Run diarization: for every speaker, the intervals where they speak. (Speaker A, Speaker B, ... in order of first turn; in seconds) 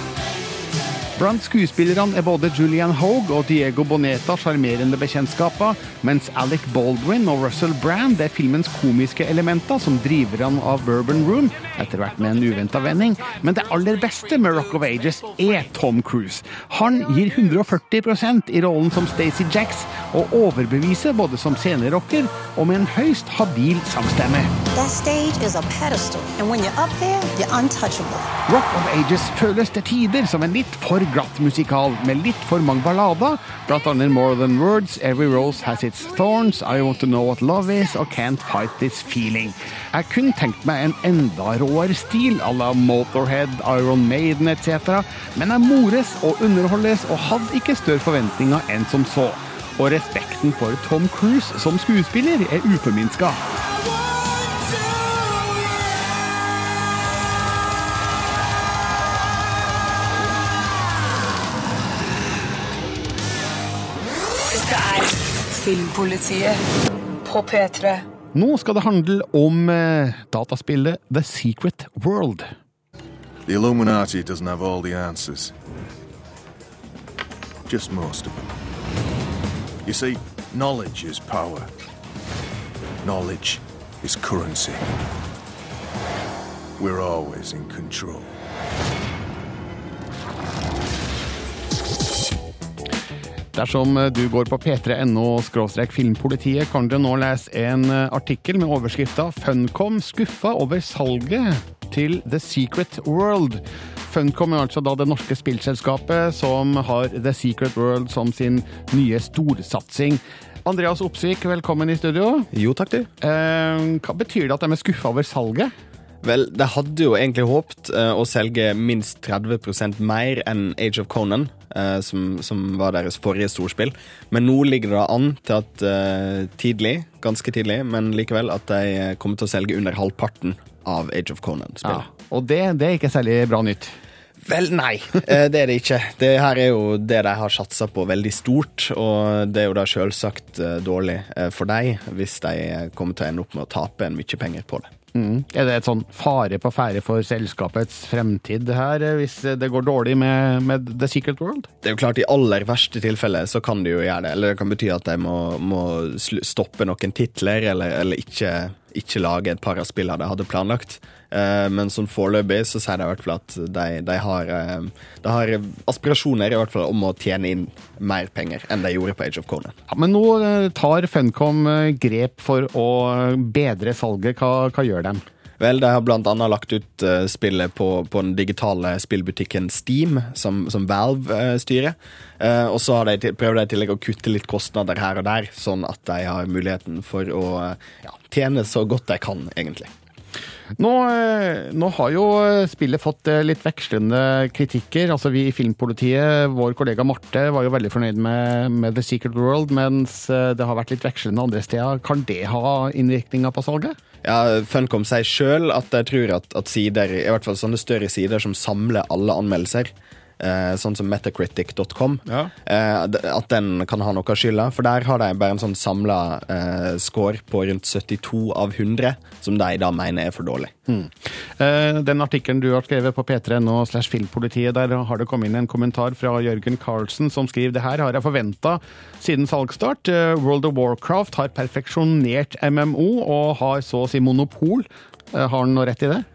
Speaker A: 1.2-24.5, 28.5-53.4, 68.3-72.5, 93.5-112.5, 113.2-115.7, 131.8-133.9, 145.2-151.7, 169.9-175.2, 190.8-204.0, 212.3-212.5, 220.9-236.3
Speaker B: 24.7-28.3
Speaker C: 64.5-66.6, 67.2-68.0
Speaker D: 73.5-75.5, 77.7-78.5, 79.9-81.7, 83.0-85.0, 86.8-88.3
Speaker E: 112.5-113.1, 116.2-132.1, 134.5-144.9, 151.8-169.8, 175.6-189.9, 204.2-220.7